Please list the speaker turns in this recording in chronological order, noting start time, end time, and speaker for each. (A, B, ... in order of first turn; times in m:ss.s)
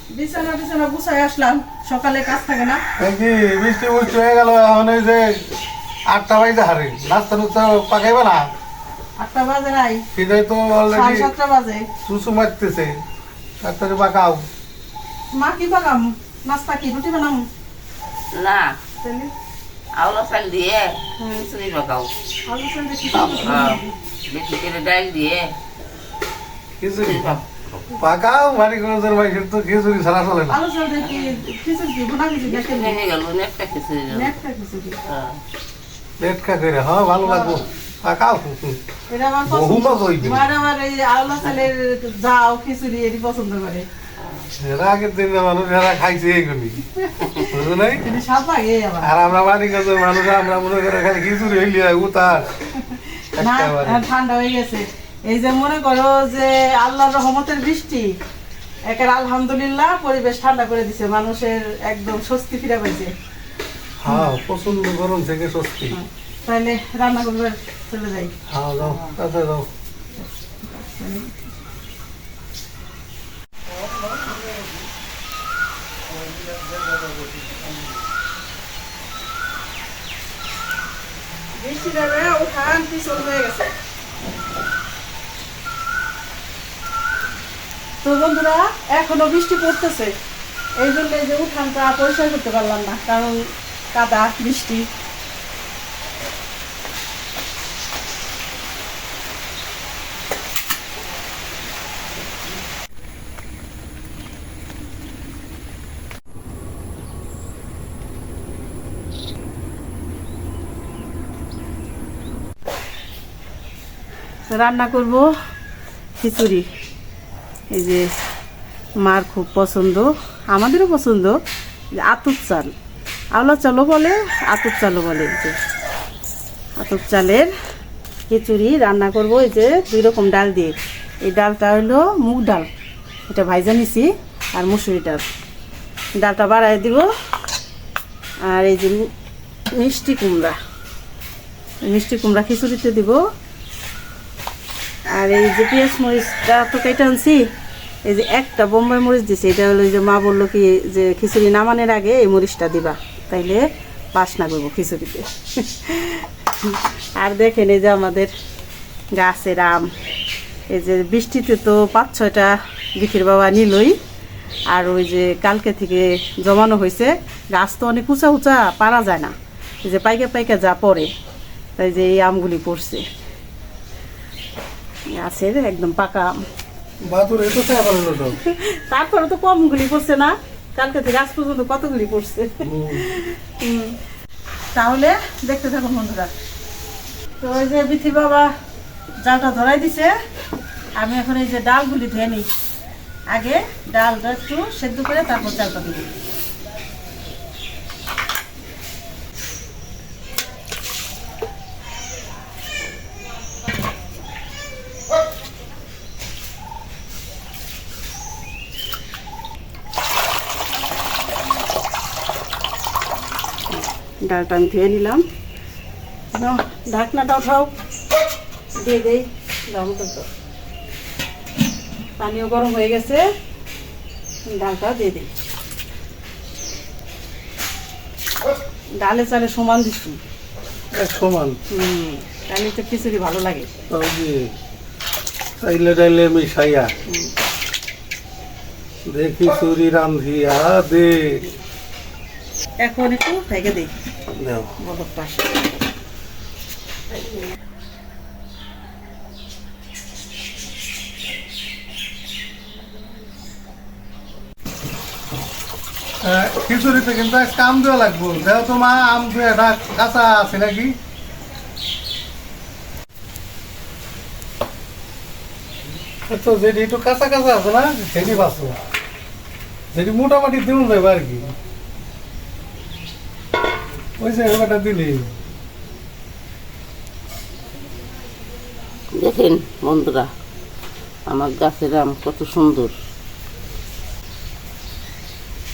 0:00.1-0:02.8 A
0:03.0-0:05.5 B
0:06.1-0:08.5 B
0:09.2-0:10.0 A
0:10.1-0:11.3 B
0:10.9-0:11.9 A
0:12.0-0:13.0 B
0:13.6-0:14.5 B
0:15.3-0:17.4 A
0:18.3-0:18.7 C
0:19.0-0:19.3 A
0:19.9-0:22.1 C
0:21.2-0:21.4 A
0:22.5-0:23.9 A
0:23.1-0:23.7 B
0:23.4-0:25.5 C
0:26.8-0:27.4 B
0:27.0-0:27.4 C
0:28.0-0:30.6 B
0:30.5-0:33.0 A
0:32.4-0:34.4 C
0:34.1-0:35.0 A
0:35.0-0:35.4 C
0:36.2-0:38.8 B
0:37.2-0:37.6 A
0:39.1-0:43.8 A
0:39.5-0:40.5 B
0:44.6-0:48.0 B
0:47.0-0:49.1 A
0:49.0-0:52.5 B
0:52.8-0:58.2 A
0:53.3-0:54.0 B
0:58.8-1:03.1 A
1:04.0-1:06.0 B
1:04.1-1:04.8 A
1:05.9-1:09.2 A
1:08.5-1:09.7 B
1:10.2-1:11.5 A
1:13.8-1:14.7 B
1:16.1-1:17.7 B
1:21.6-1:23.7 A
1:28.0-1:30.1 A
1:30.8-1:33.4 A
1:33.9-1:34.9 A
1:54.5-1:55.2 A
1:56.2-1:56.6 A
1:57.7-1:58.0 A
1:59.0-2:01.3 A
2:02.0-2:02.7 A
2:03.3-2:05.5 A
2:06.8-2:07.5 A
2:08.3-2:12.7 A
2:13.3-2:15.2 A
2:16.2-2:17.1 A
2:18.4-2:19.0 A
2:19.8-2:20.6 A
2:21.8-2:23.2 A
2:25.1-2:27.4 A
2:28.0-2:33.6 A
2:34.1-2:38.3 A
2:39.1-2:39.9 A
2:40.7-2:43.9 A
2:44.7-2:49.3 A
2:49.8-2:51.1 A
2:51.8-2:53.0 A
2:55.1-2:56.3 A
2:57.0-2:58.4 B
2:58.4-3:04.0 A
3:02.6-3:03.0 B
3:04.7-3:06.3 A
3:07.4-3:08.5 A
3:09.2-3:10.1 A
3:11.0-3:12.5 A
3:13.3-3:16.1 A
3:34.2-3:35.2 A
3:36.3-3:37.7 A
3:38.8-3:40.2 A
3:42.2-3:43.2 A
3:44.5-3:45.3 A
3:49.0-3:50.2 A
3:50.9-3:51.6 B
3:51.7-3:53.7 A
3:53.9-3:54.5 B
3:55.6-3:56.9 B
3:57.1-3:57.3 A
3:59.1-4:01.5 B
4:02.8-4:03.9 A
4:04.4-4:04.7 B
4:04.8-4:05.5 A
4:16.2-4:20.9 B
4:26.3-4:28.8 B
4:29.9-4:31.5 B
4:34.2-4:35.3 B
4:39.1-4:40.3 C
4:41.3-4:42.9 C